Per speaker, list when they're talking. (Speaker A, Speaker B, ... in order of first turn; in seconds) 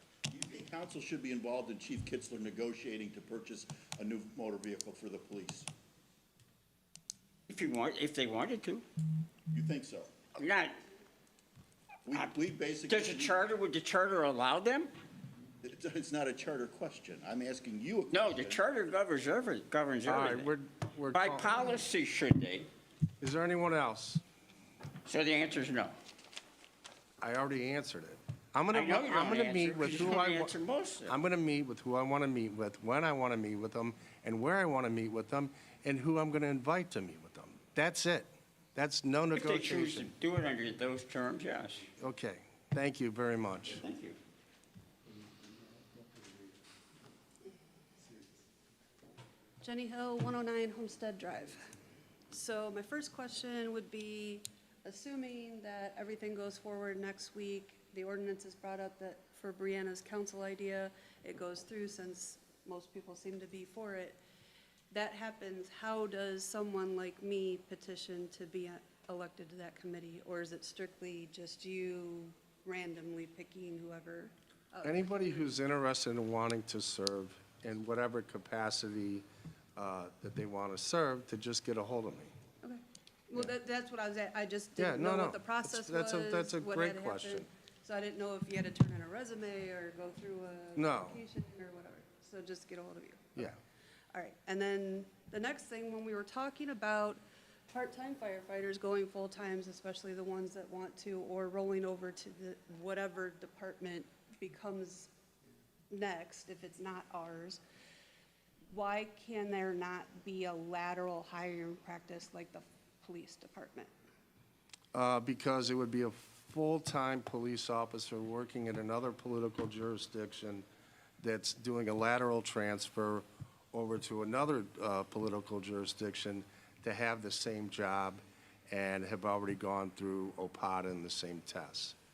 Speaker A: 0.3-5.7, 9.5-10.1, 12.1-13.4, 15.6-18.6
Speaker B: 7.5-8.8, 10.3-10.8, 12.8-14.9, 18.1-20.5, 21.1-22.7, 25.0-25.9, 28.7-31.2, 39.3-41.9, 43.8-44.2
Speaker C: 20.1-21.8, 23.2-24.2, 27.2-30.5, 31.1-40.1, 42.0-43.8, 74.8-79.2, 79.8-82.3, 84.8-87.5, 90.8-91.2, 114.9-120.6, 121.2-131.9
Speaker D: 49.6-51.6, 52.3-64.2, 64.9-75.0, 82.6-93.5, 94.1-97.2, 97.7-105.1, 105.9-107.6, 108.7-113.9